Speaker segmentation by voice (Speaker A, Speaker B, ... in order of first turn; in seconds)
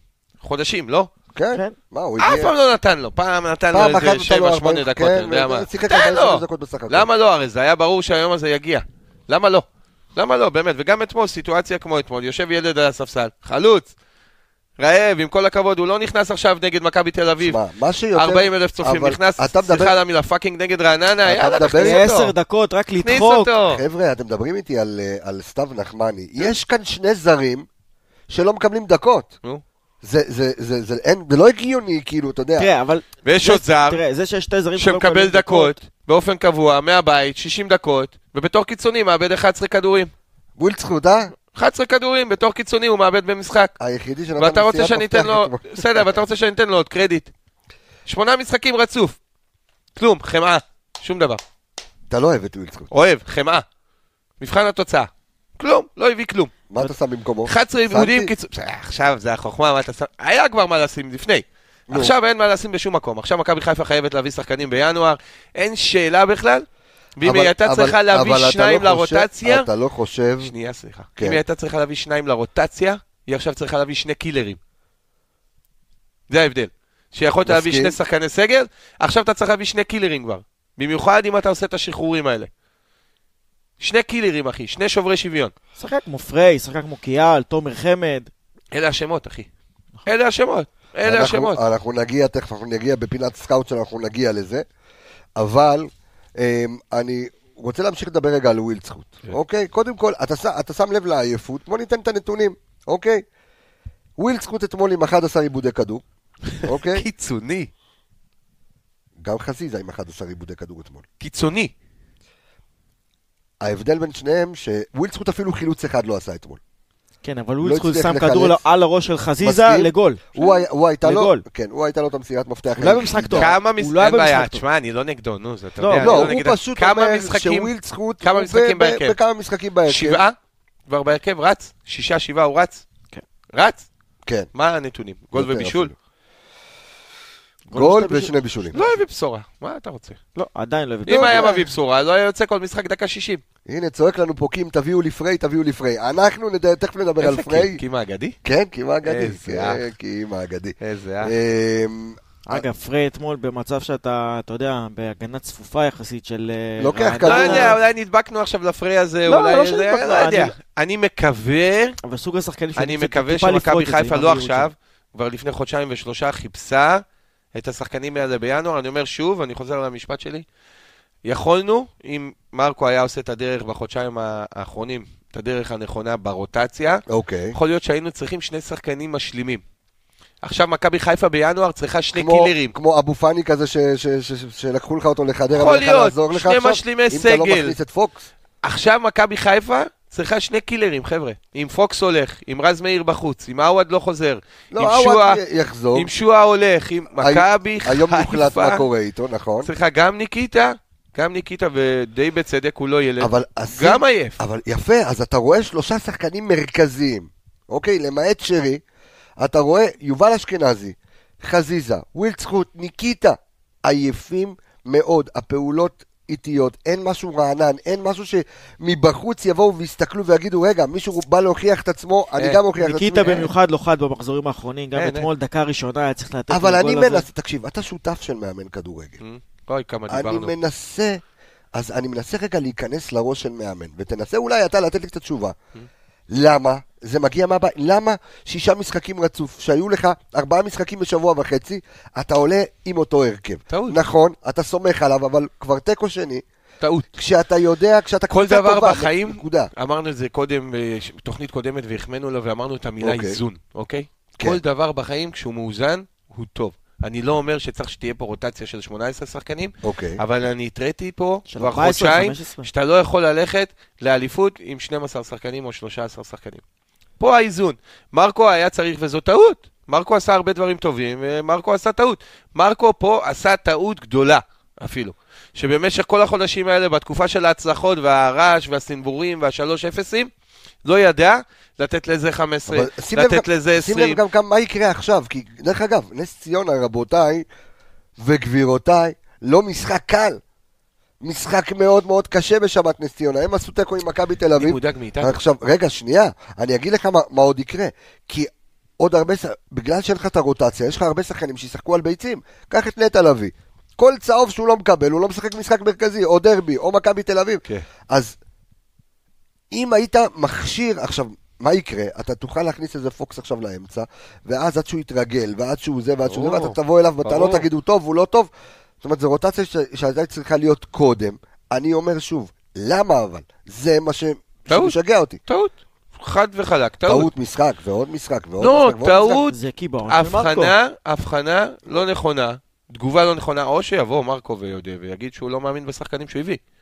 Speaker A: 0.4-1.1, 2.2-13.9, 14.8-17.6, 18.1-22.3, 23.0-23.8, 33.2-34.0, 34.8-40.1, 41.5-43.7, 44.4-47.3, 48.0-49.2, 50.0-51.4, 52.9-53.6, 54.4-56.5, 57.5-66.7, 67.2-69.7, 70.4-74.6, 76.3-82.5, 83.8-85.5, 88.7-89.5, 90.0-91.6, 106.6-107.7, 111.2-111.7, 123.3-129.2, 129.8-130.3, 130.9-132.8, 133.5-133.8, 134.5-135.9, 138.7-140.2, 141.1-143.4, 147.2-148.4, 149.0-149.8, 150.8-151.3, 157.2-162.0, 162.8-167.0, 167.5-170.4, 171.2-179.6, 180.4-182.8, 185.5-187.8, 188.6-195.4, 195.9-198.8, 199.6-204.4, 223.2-223.5, 224.9-225.3, 229.2-230.5, 243.7-244.0, 246.8-247.1, 248.3-266.6, 267.2-280.3, 280.8-284.2, 294.5-295.4, 316.3-317.7, 324.7-324.9, 325.5-327.3, 328.6-336.6
Speaker B: 1.3-2.5, 3.7-7.1, 17.4-19.9, 21.2-22.0, 23.7-27.7, 28.3-29.3, 30.0-32.7, 40.6-41.3, 43.8-46.2, 52.1-52.9, 56.7-58.3, 61.9-62.1, 67.2-70.5, 77.4-78.0, 91.0-94.6, 95.4-103.2, 104.2-106.0, 106.6-107.0, 109.2-111.0, 113.6-116.6, 117.6-118.6, 119.4-123.5, 125.9-130.2, 135.3-135.9, 137.7-138.8, 141.1-141.6, 143.7-147.8, 148.4-152.6, 156.8-157.8, 177.1-177.6, 182.1-188.3, 194.7-196.1, 197.2-199.7, 203.2-208.8, 209.4-223.4, 226.5-229.2, 230.1-231.2, 231.8-235.6, 236.3-246.4, 247.1-249.7, 253.0-253.4, 259.8-260.2, 282.7-287.4, 288.2-290.4, 291.2-308.4, 309.7-318.5, 319.0-325.4, 327.1-329.4
Speaker C: 21.8-23.5, 32.6-35.8, 85.8-88.3, 117.2-120.4, 121.0-121.4, 122.8-124.6, 125.8-126.3, 137.7-138.3, 140.3-141.4, 152.4-157.8, 159.2-160.5, 162.0-164.7, 222.8-227.2, 261.5-262.7, 329.5-330.7